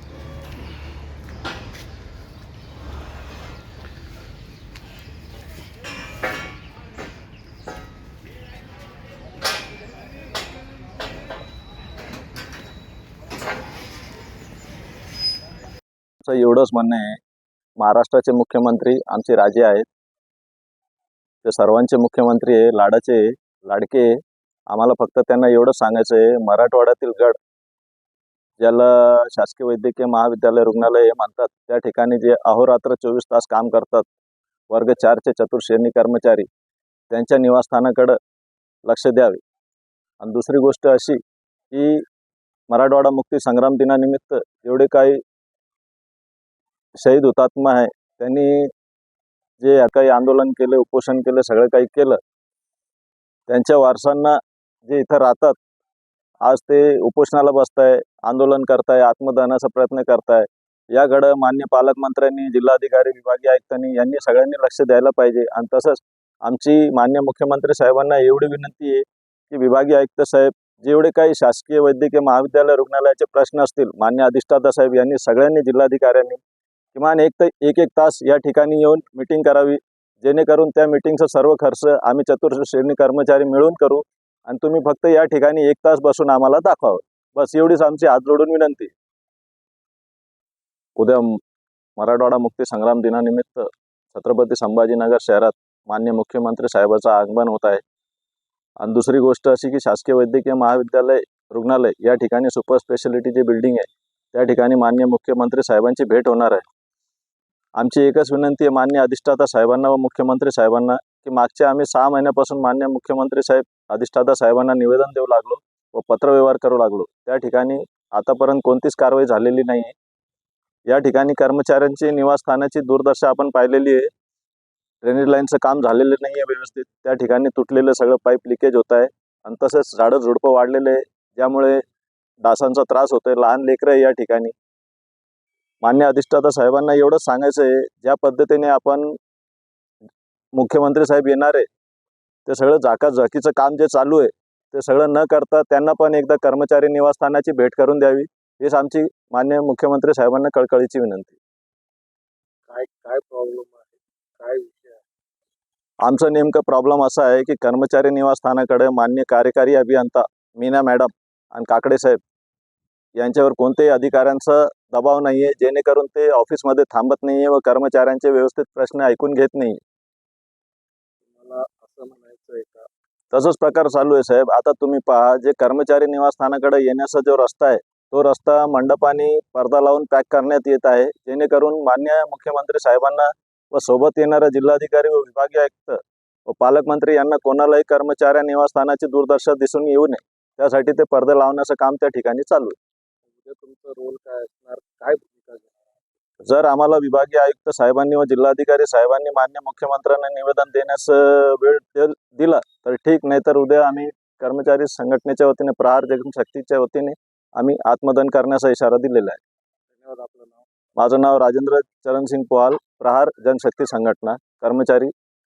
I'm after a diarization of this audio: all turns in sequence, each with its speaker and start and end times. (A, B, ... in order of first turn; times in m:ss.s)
0:16.2-0:17.2 A
0:17.8-0:19.8 A
0:21.4-0:24.2 A
0:24.7-0:27.4 A
0:28.6-0:34.1 A
0:34.7-0:36.5 A
0:37.1-0:38.2 A
0:38.8-0:39.4 A
0:40.2-0:41.2 A
0:41.7-0:42.0 A
0:42.7-0:45.2 A
0:47.0-0:48.7 A
0:49.6-0:52.2 A
0:53.5-0:55.6 A
0:56.4-1:16.4 A
1:16.9-1:28.9 A
1:31.0-1:31.4 A
1:32.0-1:37.8 A
1:38.8-1:46.6 A
1:47.8-1:59.9 A
2:00.9-2:04.1 A
2:05.0-2:11.8 A
2:12.4-2:14.5 A
2:15.8-2:19.2 A
2:20.5-2:21.7 A
2:22.5-2:31.4 A
2:32.7-2:35.0 B
2:36.0-2:42.2 A
2:43.2-2:49.8 A
2:51.3-2:52.9 B
2:53.3-3:12.8 A
3:13.3-3:15.8 B
3:16.5-3:29.4 A
3:29.9-3:30.6 B
3:31.0-3:35.1 A